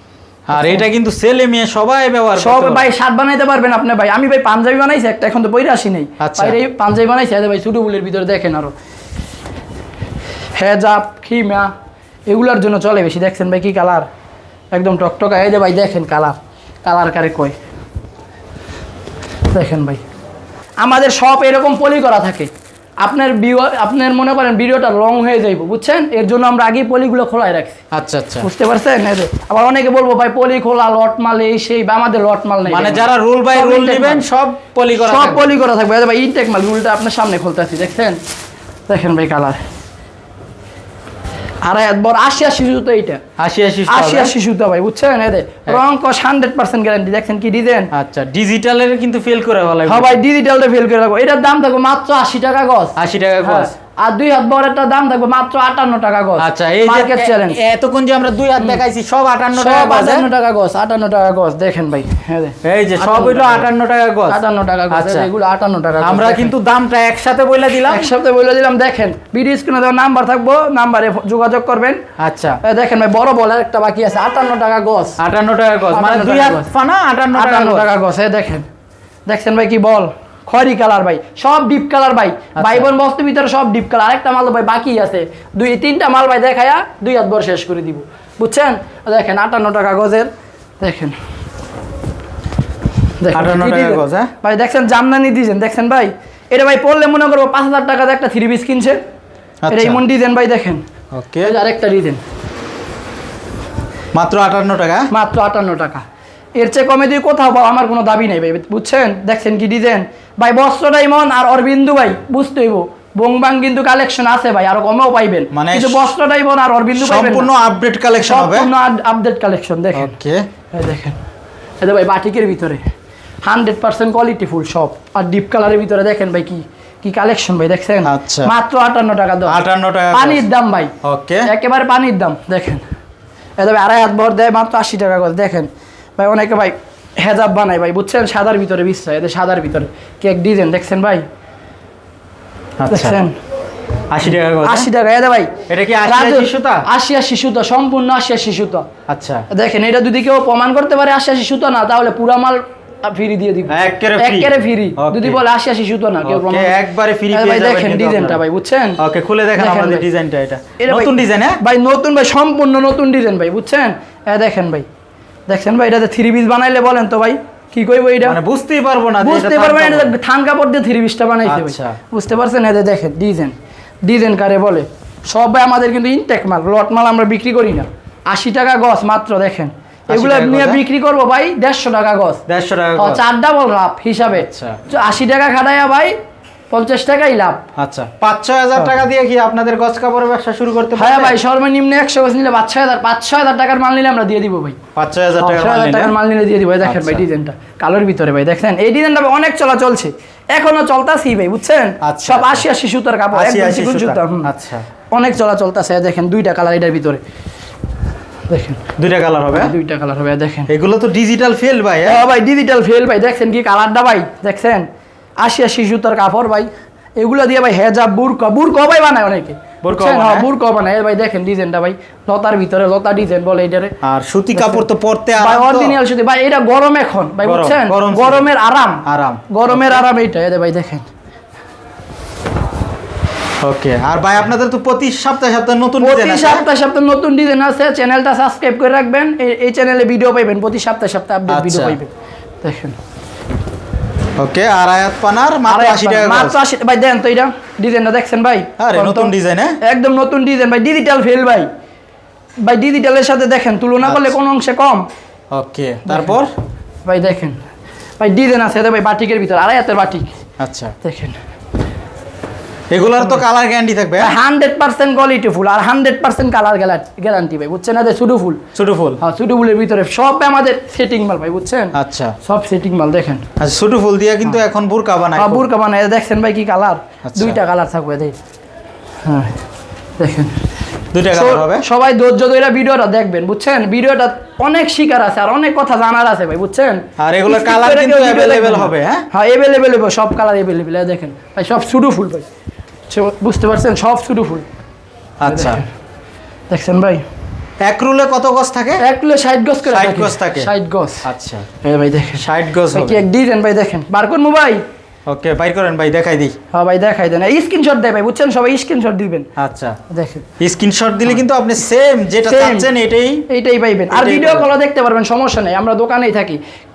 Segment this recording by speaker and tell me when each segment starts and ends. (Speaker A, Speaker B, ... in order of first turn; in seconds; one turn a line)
Speaker A: 0.5-2.9
Speaker B: 0.5-0.8
Speaker B: 2.4-8.7
Speaker A: 6.2-6.6
Speaker B: 10.6-11.7
Speaker B: 12.3-14.1
Speaker B: 14.7-17.6
Speaker B: 19.5-20.0
Speaker B: 20.8-22.5
Speaker B: 23.0-27.8
Speaker A: 27.9-28.5
Speaker B: 28.4-34.2
Speaker A: 32.6-35.5
Speaker B: 35.0-38.2
Speaker B: 38.9-39.6
Speaker B: 41.6-43.2
Speaker A: 43.4-44.3
Speaker B: 43.9-47.9
Speaker A: 47.9-50.2
Speaker B: 49.9-57.6
Speaker A: 53.0-53.7
Speaker A: 56.4-60.3
Speaker B: 59.5-63.7
Speaker A: 62.6-64.4
Speaker B: 64.3-66.5
Speaker A: 64.9-65.3
Speaker A: 66.0-68.1
Speaker B: 67.9-72.0
Speaker A: 72.2-72.6
Speaker B: 72.6-75.2
Speaker A: 75.2-77.9
Speaker B: 75.9-76.7
Speaker B: 77.3-78.7
Speaker B: 79.3-90.3
Speaker A: 82.6-82.9
Speaker B: 90.8-91.2
Speaker B: 93.2-99.0
Speaker A: 93.3-94.3
Speaker A: 99.6-100.0
Speaker B: 99.7-100.8
Speaker A: 101.1-101.5
Speaker B: 101.4-102.2
Speaker A: 104.1-105.1
Speaker B: 105.1-106.0
Speaker B: 106.6-117.5
Speaker A: 115.5-116.1
Speaker A: 117.0-118.7
Speaker B: 118.2-120.1
Speaker A: 119.9-120.4
Speaker B: 120.7-121.2
Speaker B: 121.8-122.8
Speaker B: 123.5-129.6
Speaker A: 128.1-128.5
Speaker A: 129.5-130.4
Speaker B: 130.1-130.9
Speaker A: 131.0-131.5
Speaker B: 131.5-132.8
Speaker B: 133.6-141.2
Speaker A: 142.8-143.2
Speaker B: 142.9-143.4
Speaker A: 144.1-144.9
Speaker B: 144.3-145.5
Speaker A: 145.7-146.8
Speaker B: 146.1-148.9
Speaker A: 149.1-149.5
Speaker B: 149.5-156.8
Speaker A: 153.7-155.4
Speaker A: 156.2-158.4
Speaker B: 157.3-159.0
Speaker A: 159.0-161.6
Speaker B: 159.6-160.1
Speaker B: 160.8-164.9
Speaker B: 165.5-168.4
Speaker A: 168.2-170.1
Speaker B: 169.2-182.4
Speaker A: 171.4-172.0
Speaker A: 180.1-180.8
Speaker A: 182.5-183.2
Speaker B: 183.0-186.1
Speaker A: 184.3-184.8
Speaker B: 186.7-187.6
Speaker A: 187.8-191.4
Speaker B: 190.9-194.8
Speaker A: 195.0-196.1
Speaker B: 195.4-204.5
Speaker A: 196.8-197.2
Speaker A: 202.0-202.7
Speaker A: 203.3-204.8
Speaker B: 205.1-207.2
Speaker B: 208.5-208.8
Speaker A: 209.0-209.7
Speaker B: 209.5-210.7
Speaker A: 210.7-212.2
Speaker B: 212.1-214.9
Speaker B: 215.4-224.0
Speaker A: 219.8-220.5
Speaker A: 224.0-226.0
Speaker B: 224.6-224.8
Speaker B: 225.4-231.1
Speaker A: 227.4-228.5
Speaker A: 229.1-230.0
Speaker A: 233.6-236.6
Speaker B: 236.0-242.9
Speaker A: 241.5-242.0
Speaker A: 244.4-246.6
Speaker B: 245.7-251.7
Speaker A: 248.8-249.8
Speaker B: 252.6-255.1
Speaker A: 254.0-254.3
Speaker A: 255.5-256.5
Speaker B: 256.1-256.4
Speaker B: 257.1-257.6
Speaker B: 258.2-260.3
Speaker A: 260.6-260.9
Speaker B: 261.0-261.4
Speaker A: 262.9-264.3
Speaker B: 264.2-268.6
Speaker A: 268.8-269.2
Speaker B: 269.2-273.4
Speaker A: 271.9-272.4
Speaker A: 273.6-275.7
Speaker B: 275.4-278.4
Speaker A: 277.2-277.6
Speaker B: 279.2-279.6
Speaker B: 280.2-280.6
Speaker A: 281.1-281.9
Speaker B: 281.3-292.5
Speaker A: 287.2-289.2
Speaker B: 293.1-294.6
Speaker A: 295.4-295.8
Speaker B: 295.4-295.9
Speaker B: 296.7-297.2
Speaker A: 297.8-299.0
Speaker B: 299.0-301.2
Speaker A: 299.9-300.7
Speaker A: 301.2-301.6
Speaker B: 301.8-304.8
Speaker A: 302.4-303.2
Speaker A: 305.2-306.6
Speaker B: 306.7-309.5
Speaker A: 309.6-310.0
Speaker B: 310.1-310.5
Speaker A: 310.6-313.4
Speaker B: 312.5-312.9
Speaker B: 313.5-316.6
Speaker A: 314.1-314.7